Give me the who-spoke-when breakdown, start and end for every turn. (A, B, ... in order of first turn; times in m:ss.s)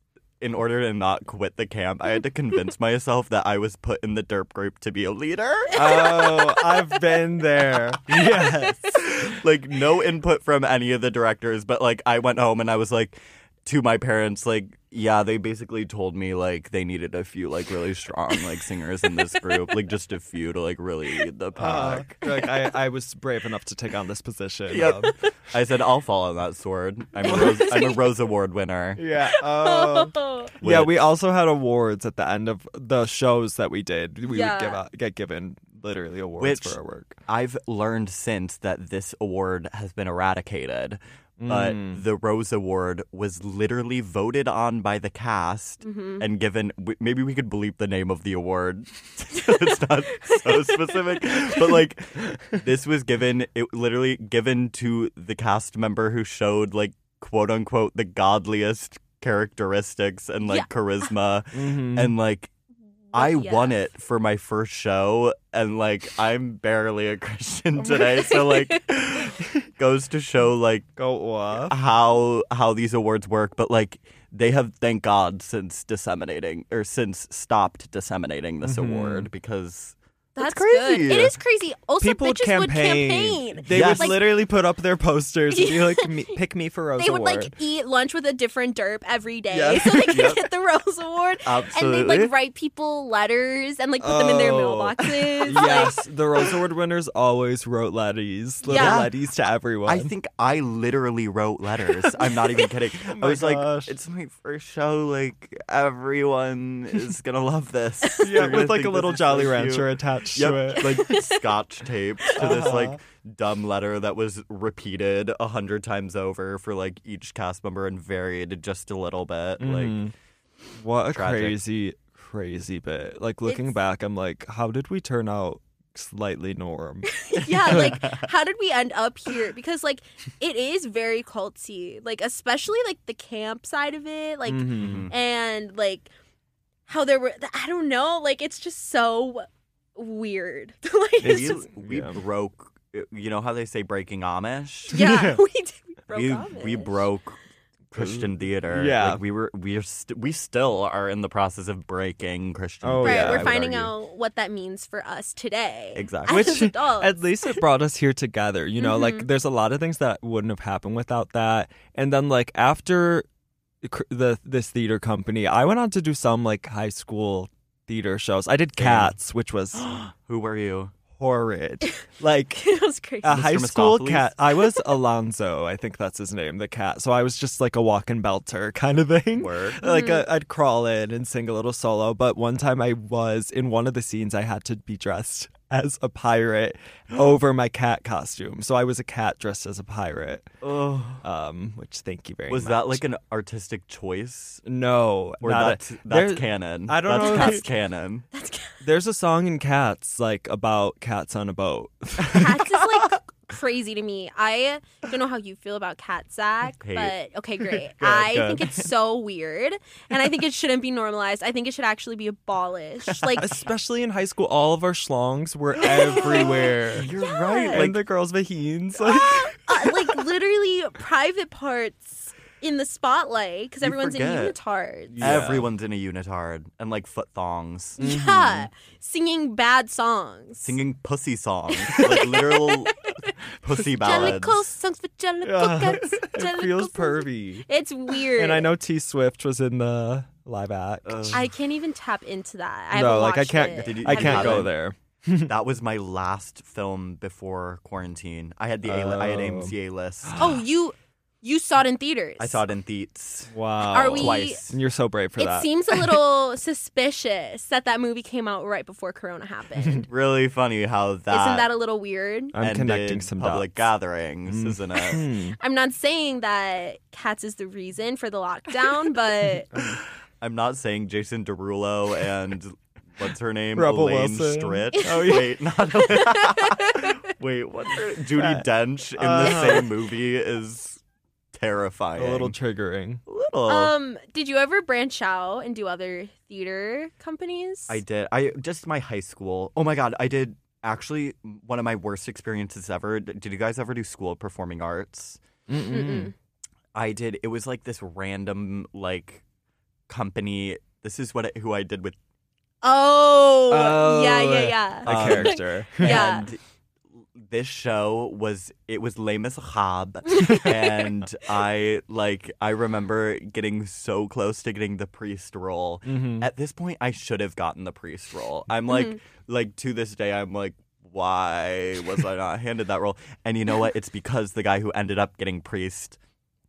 0:00.4-0:06.2 A
0:05.7-0:06.8 B
0:05.7-0:09.1 C
0:08.9-0:22.4 A
0:21.6-0:25.2 C
0:24.7-0:29.0 A
0:27.2-0:27.8 C
0:27.3-0:27.8 B
0:29.0-0:37.2 C
0:29.4-0:30.5 B
0:30.6-0:31.0 A
0:34.3-0:34.8 B
0:36.4-1:02.5 A
0:41.4-0:42.0 C
0:45.8-0:46.2 B
0:50.2-0:51.0 B
1:01.5-1:02.2 C
1:03.1-1:03.8 B
1:03.1-1:10.9 A
1:07.8-1:08.9 B
1:11.0-1:11.8 C
1:11.6-1:21.4 A
1:18.6-1:19.3 C
1:20.4-1:24.2 B
1:22.0-1:27.5 C
1:23.7-1:24.2 A
1:25.5-1:26.3 B
1:27.0-1:36.0 B
1:29.5-1:30.3 C
1:30.1-1:30.4 A
1:31.4-1:32.3 A
1:34.0-1:40.1 C
1:38.6-1:39.1 B
1:38.7-1:39.1 A
1:39.8-2:00.0 A
1:43.0-1:43.9 C
1:48.2-1:51.1 C
1:50.8-1:51.4 B
1:52.2-1:52.6 B
1:52.4-1:53.0 C
1:59.6-2:00.1 C
2:00.8-2:07.1 C
2:01.1-2:01.6 A
2:03.4-2:03.8 B
2:07.1-2:16.1 B
2:07.4-2:08.3 A
2:14.5-2:15.1 C
2:14.8-2:15.1 A
2:16.9-2:21.6 B
2:21.2-2:22.2 C
2:21.2-2:25.0 A
2:24.9-2:27.1 B
2:24.9-2:25.4 C
2:26.1-2:27.4 A
2:27.9-2:33.9 A
2:28.0-2:29.2 C
2:32.8-2:33.6 C
2:33.0-2:37.6 B
2:36.0-2:36.5 A
2:36.3-2:43.2 C
2:38.8-2:39.3 B
2:43.8-2:49.9 C
2:48.8-2:49.2 A
2:49.7-2:50.9 A
2:51.1-2:52.6 C
2:52.6-2:53.4 B
2:53.2-3:10.6 C
2:53.3-2:54.3 A
2:59.4-2:59.8 A
2:59.8-3:00.2 B
3:10.6-3:11.2 A
3:11.2-3:13.0 C
3:12.5-3:14.6 A
3:14.7-3:17.7 C
3:15.4-3:18.3 A
3:18.3-3:18.8 B
3:18.8-3:22.6 C
3:22.3-3:33.5 B
3:22.4-3:23.1 A
3:26.8-3:27.2 A
3:28.0-3:28.7 C
3:33.1-3:33.4 A
3:33.4-3:37.1 C
3:35.8-3:37.8 B
3:36.2-3:38.0 A
3:37.7-3:40.2 C
3:39.0-3:45.2 B
3:43.8-3:44.6 A
3:45.1-3:45.7 C
3:45.2-3:48.0 A
3:48.0-3:48.7 C
3:48.0-3:50.8 B
3:50.6-3:54.7 A
3:51.7-3:53.3 B
3:54.0-3:58.7 B
3:54.1-3:54.4 C
3:55.4-4:01.4 C
4:01.0-4:01.4 A
4:01.3-4:04.7 B
4:02.9-4:05.5 C
4:03.8-4:04.8 A
4:05.5-4:10.4 A
4:08.8-4:09.8 C
4:10.3-4:10.6 C
4:10.4-4:12.6 B
4:12.4-4:14.8 A
4:13.5-4:16.2 C
4:13.9-4:14.6 B
4:15.4-4:20.1 B
4:19.8-4:20.1 C
4:20.1-4:21.7 A
4:21.3-4:22.6 B
4:22.5-4:23.9 C
4:22.6-4:25.2 A
4:24.5-4:25.6 C
4:25.6-4:29.7 B
4:29.7-4:30.0 C
4:30.4-4:41.0 A
4:33.8-4:35.6 C
4:35.0-4:37.3 B
4:38.3-4:39.9 C
4:39.4-4:39.8 B
4:41.5-4:42.6 A
4:42.2-4:43.2 C
4:43.3-4:43.9 A
4:43.7-4:48.0 B
4:47.9-4:55.4 A
4:55.7-4:56.3 C
4:55.9-4:56.3 B
4:56.9-4:59.4 A
5:00.1-5:02.2 A
5:02.8-5:06.5 B
5:03.7-5:06.3 C
5:05.1-5:06.6 A
5:07.2-5:26.2 A
5:10.3-5:11.1 B
5:16.0-5:16.5 C